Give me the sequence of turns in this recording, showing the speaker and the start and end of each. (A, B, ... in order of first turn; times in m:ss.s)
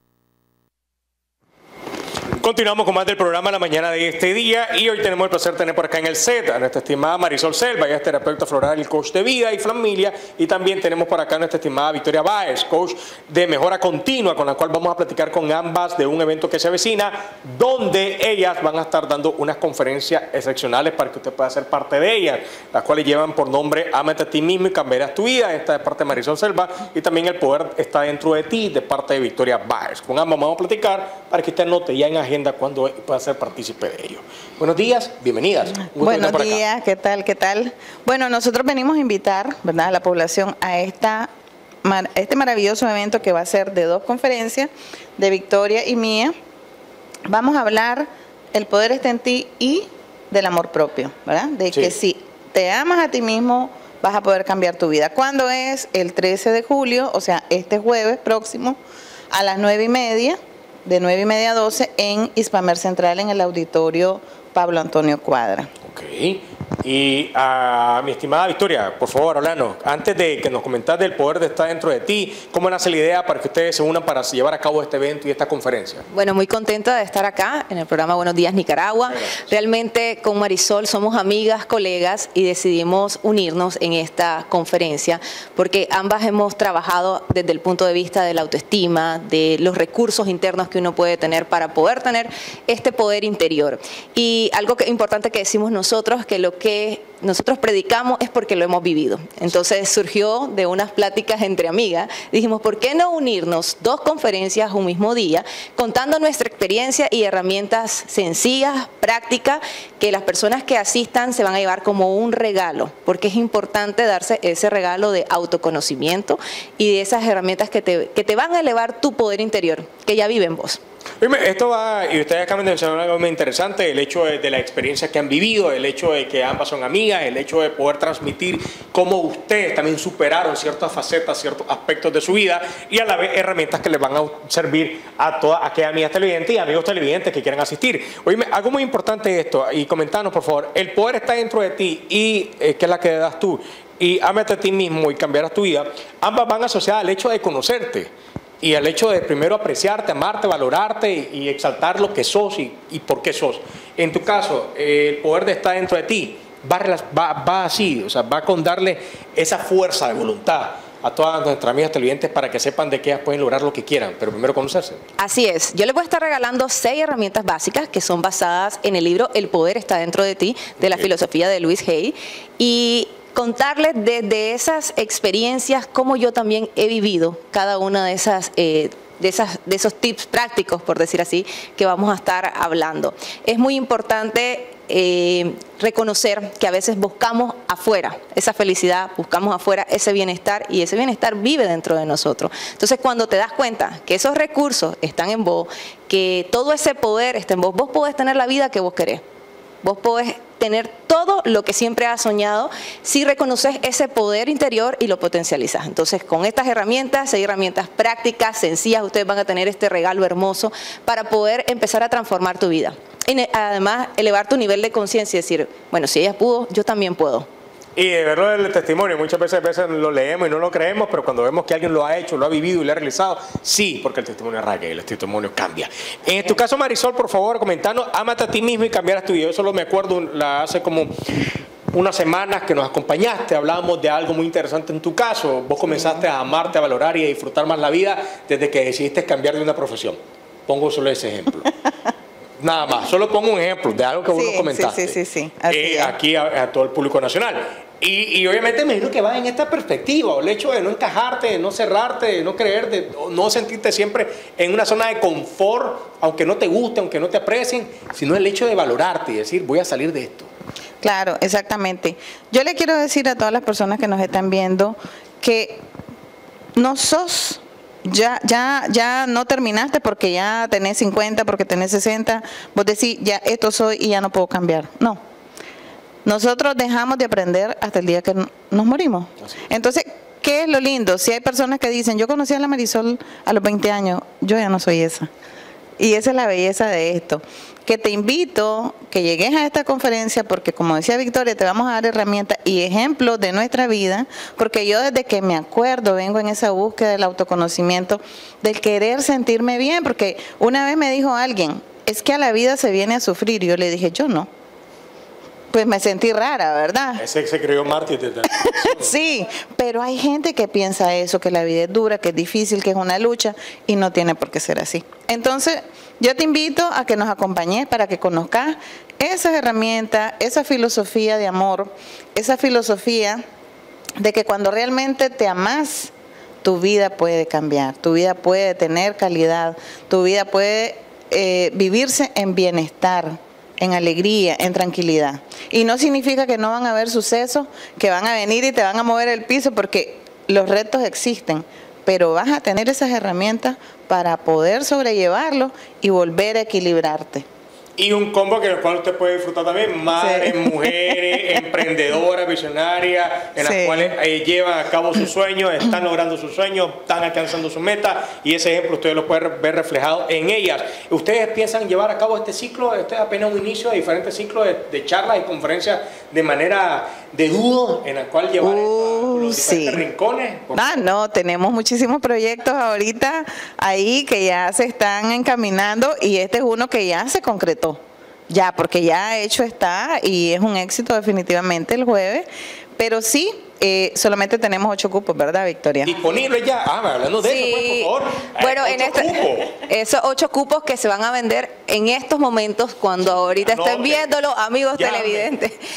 0:02.4-0:36.6 A
0:36.0-0:41.3 B
0:41.8-0:46.3 B
0:47.3-0:58.8 B
0:59.3-1:05.7 B
1:05.8-1:16.0 A
1:16.1-2:00.8 C
2:01.2-2:28.1 A
2:28.6-2:45.0 A
2:45.2-3:19.2 C
3:19.8-3:37.5 C
3:38.0-3:51.1 A
3:51.9-4:01.7 A
4:02.6-4:05.2 A
4:04.3-4:06.1 B
4:05.7-4:20.5 A
4:21.0-4:25.8 B
4:26.8-4:35.2 B
4:36.2-4:45.3 B
4:46.0-5:04.5 B
5:05.7-5:07.2 B
5:07.2-5:09.1 A
5:08.7-5:23.4 B
5:24.2-5:26.1 B
5:26.6-5:47.4 B
5:48.0-6:11.1 A
5:50.2-5:51.2 B
5:53.6-5:54.1 B
6:08.6-6:10.0 B
6:10.7-6:26.1 B
6:26.0-6:29.7 A
6:27.4-6:35.8 C
6:33.6-6:34.3 A
6:34.9-6:35.5 A